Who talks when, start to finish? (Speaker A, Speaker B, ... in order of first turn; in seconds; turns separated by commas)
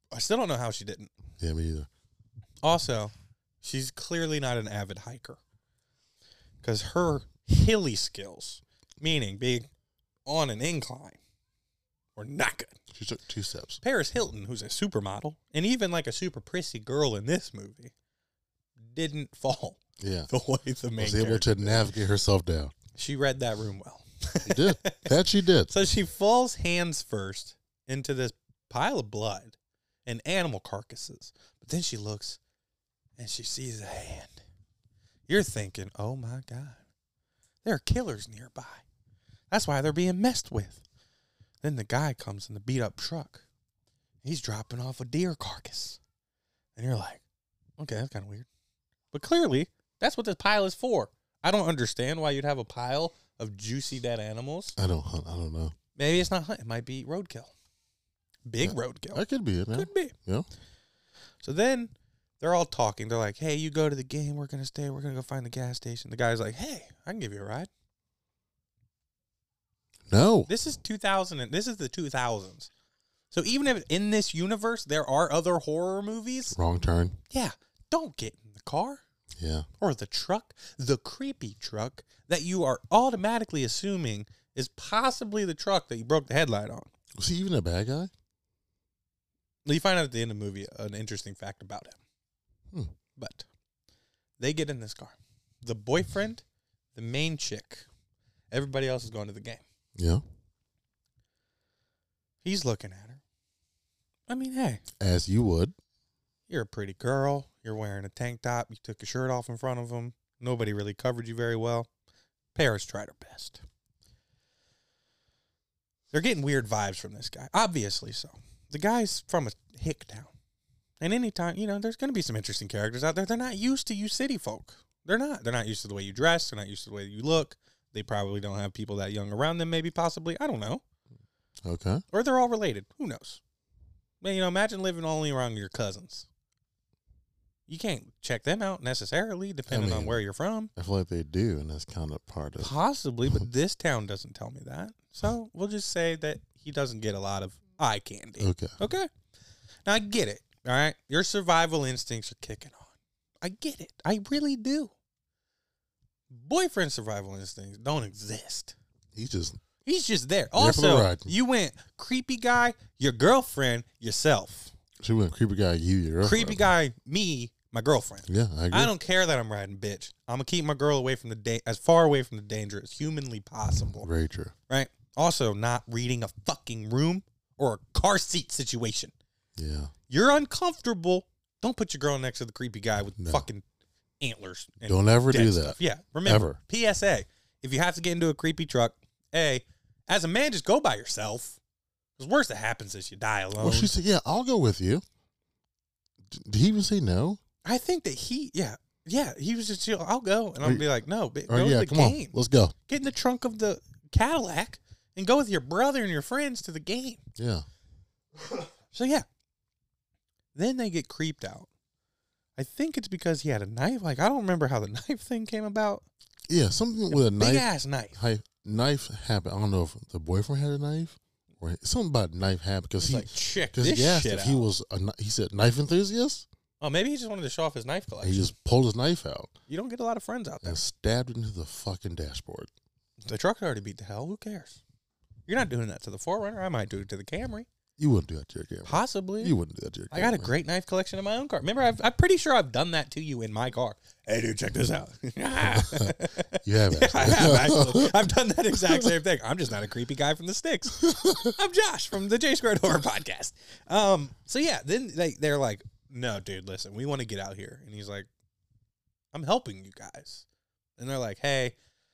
Speaker A: 0.1-1.1, Speaker B: 1.4-1.9, Speaker A: 2.6-5.4, Speaker A: 6.6-9.7, Speaker A: 10.2-11.2, Speaker A: 12.2-12.8, Speaker B: 12.9-13.8, Speaker A: 13.8-17.9, Speaker A: 18.8-21.9, Speaker B: 20.0-20.3, Speaker B: 21.0-22.7, Speaker A: 22.9-25.1, Speaker B: 24.4-25.7, Speaker A: 25.7-32.4, Speaker A: 33.2-34.4, Speaker A: 35.3-36.8, Speaker A: 37.6-38.8, Speaker A: 39.5-40.8, Speaker A: 41.6-43.4, Speaker A: 44.2-46.0, Speaker A: 46.8-47.2, Speaker A: 47.8-48.5, Speaker A: 49.1-54.8, Speaker B: 54.8-55.7, Speaker A: 56.0-57.5, Speaker A: 58.5-59.2, Speaker B: 58.6-60.5, Speaker A: 59.7-60.1, Speaker A: 61.4-67.7, Speaker B: 70.1-70.5, Speaker A: 70.5-72.7, Speaker A: 73.3-76.5, Speaker B: 76.5-77.2, Speaker A: 77.3-79.0, Speaker B: 79.4-79.7, Speaker A: 79.8-86.9, Speaker B: 87.2-88.1, Speaker A: 89.6-92.0, Speaker A: 93.2-93.5, Speaker A: 94.4-96.4, Speaker A: 96.9-97.8, Speaker A: 98.5-99.6, Speaker B: 100.0-100.2, Speaker A: 102.4-103.2, Speaker A: 104.3-104.8, Speaker B: 105.0-105.7, Speaker A: 106.5-111.9, Speaker A: 112.5-113.6, Speaker A: 116.1-120.3, Speaker A: 121.0-130.8, Speaker B: 131.6-132.0, Speaker A: 132.1-133.4, Speaker A: 134.2-136.3, Speaker A: 137.7-140.7, Speaker B: 139.7-140.2, Speaker B: 140.8-142.7, Speaker A: 142.6-149.1, Speaker B: 148.4-148.8, Speaker A: 149.8-154.9, Speaker A: 156.3-158.7, Speaker B: 159.1-159.6, Speaker A: 159.8-164.7, Speaker B: 160.6-161.3, Speaker B: 165.0-166.6, Speaker A: 166.2-174.1, Speaker B: 168.3-168.9, Speaker B: 173.9-174.5, Speaker A: 174.7-179.1, Speaker B: 179.6-179.9, Speaker A: 180.1-183.6, Speaker B: 183.2-183.4, Speaker A: 184.2-191.6, Speaker B: 184.8-186.6, Speaker A: 192.2-193.9, Speaker B: 193.6-195.0, Speaker B: 196.3-197.4, Speaker A: 197.6-202.3, Speaker B: 200.6-200.9, Speaker B: 201.5-202.7, Speaker A: 202.9-207.2, Speaker B: 207.3-207.7, Speaker A: 208.9-209.2, Speaker A: 210.5-211.7, Speaker A: 212.6-216.0, Speaker B: 216.5-226.4, Speaker A: 217.1-218.2, Speaker A: 223.0-224.7, Speaker A: 226.8-228.5, Speaker B: 228.2-229.5, Speaker A: 229.7-230.8, Speaker B: 230.6-232.7, Speaker A: 233.2-234.8, Speaker A: 235.5-237.7, Speaker B: 238.0-240.5, Speaker A: 238.8-239.5, Speaker A: 240.1-258.3, Speaker B: 245.6-248.2, Speaker B: 248.8-249.1, Speaker B: 251.0-251.5, Speaker A: 259.3-260.4, Speaker A: 261.0-261.8